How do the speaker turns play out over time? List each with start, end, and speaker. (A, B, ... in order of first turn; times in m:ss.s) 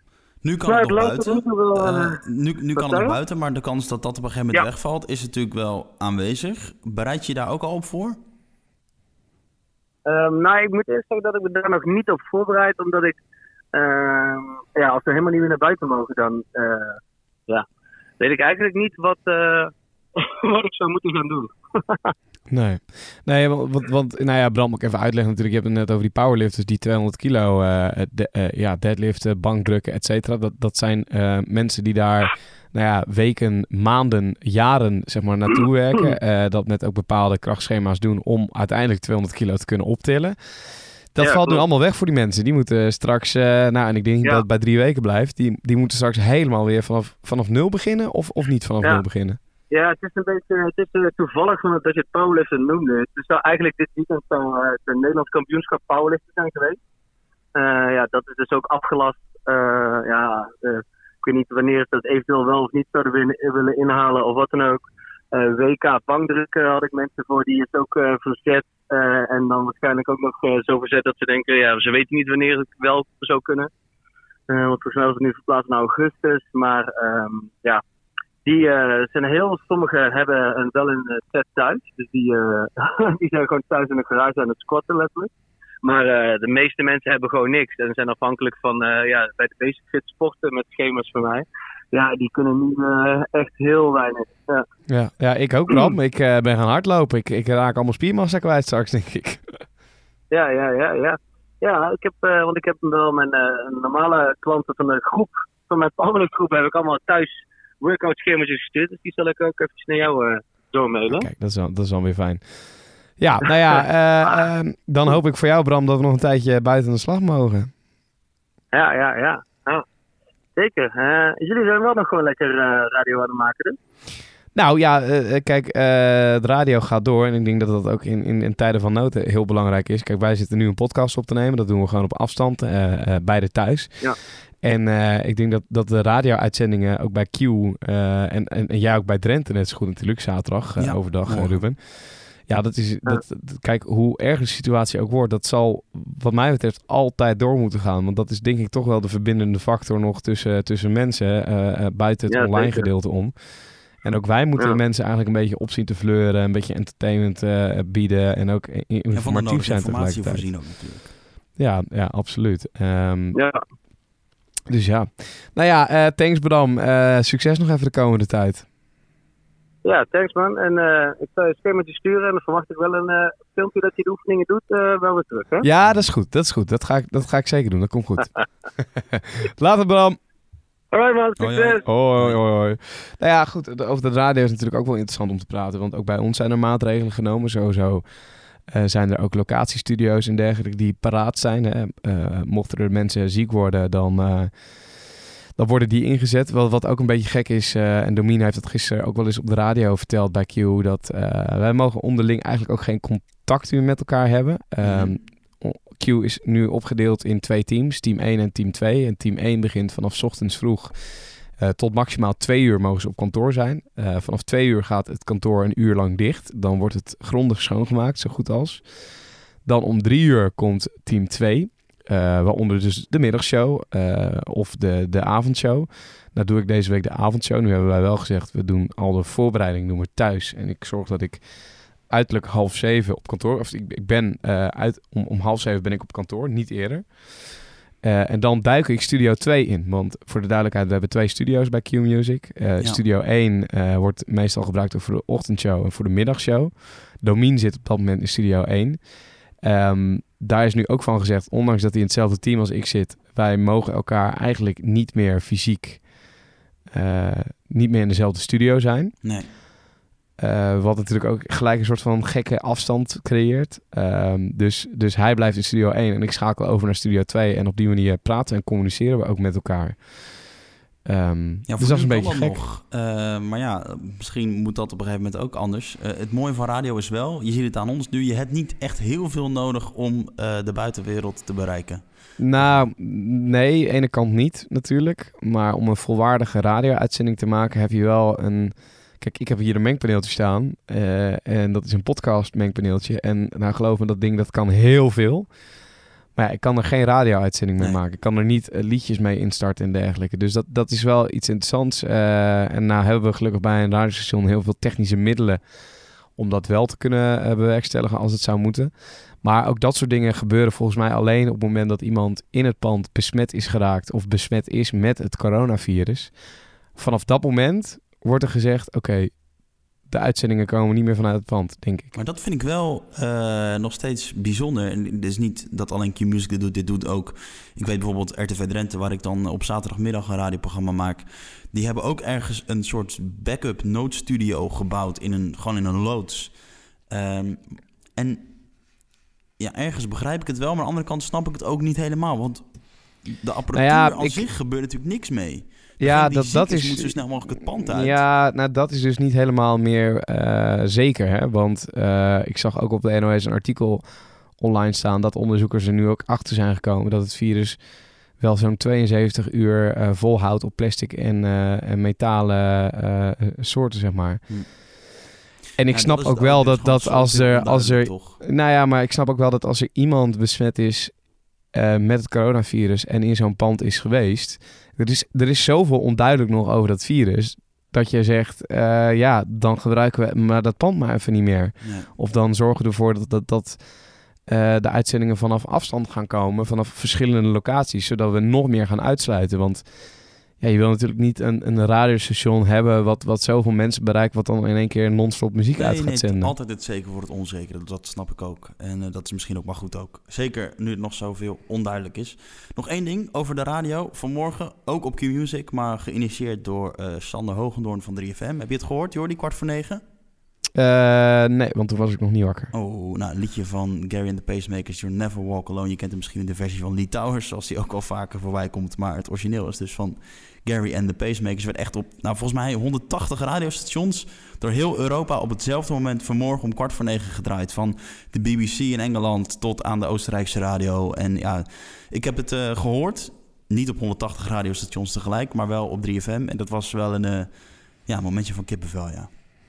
0:00.4-0:08.2 A
0:00.7-0:02.2 B
0:02.8-0:03.2 B
0:10.1-0:13.2 B
0:13.7-0:17.7 B
0:18.2-0:22.1 B
0:22.5-0:40.4 C
0:41.1-0:49.4 C
0:41.2-0:41.6 B
0:49.7-0:56.8 B
0:57.6-1:04.8 B
1:05.3-1:13.7 B
1:14.5-1:17.8 B
1:18.4-1:25.3 B
1:25.8-1:34.6 B
1:34.9-1:39.6 C
1:40.3-1:51.3 B
1:51.1-1:57.7 C
1:58.7-1:59.8 B
2:00.6-2:03.8 B
2:04.6-2:14.1 C
2:14.6-2:40.5 C
2:20.8-2:21.6 A
2:32.3-2:32.9 B
2:39.1-2:41.1 A
2:41.6-2:43.4 C
2:43.3-2:43.6 B
2:44.7-2:48.6 C
2:49.8-2:55.7 B
2:55.6-2:58.3 C
2:59.1-3:00.2 C
3:00.9-3:01.8 B
3:01.4-3:02.4 A
3:01.8-3:08.0 C
3:08.7-3:39.1 C
3:24.8-3:25.2 A
3:39.6-3:51.5 C
3:52.1-4:16.2 C
4:16.9-4:19.2 C
4:19.2-4:19.5 A
4:20.4-4:30.5 C
4:31.0-4:32.6 C
4:31.7-4:42.9 A
4:42.4-4:55.6 C
4:56.4-5:05.6 C
5:06.4-5:16.4 C
5:17.0-5:19.4 C
5:20.1-5:22.2 C
5:22.1-5:36.6 A
5:37.1-5:38.5 A
5:39.6-5:48.2 A
5:43.7-5:44.5 C
5:46.0-6:04.8 C
6:05.8-6:36.5 C
6:05.9-6:08.4 A
6:21.8-6:22.1 A
6:35.8-6:50.0 A
6:50.8-6:52.7 C
6:52.7-7:17.5 A
7:18.0-7:19.3 A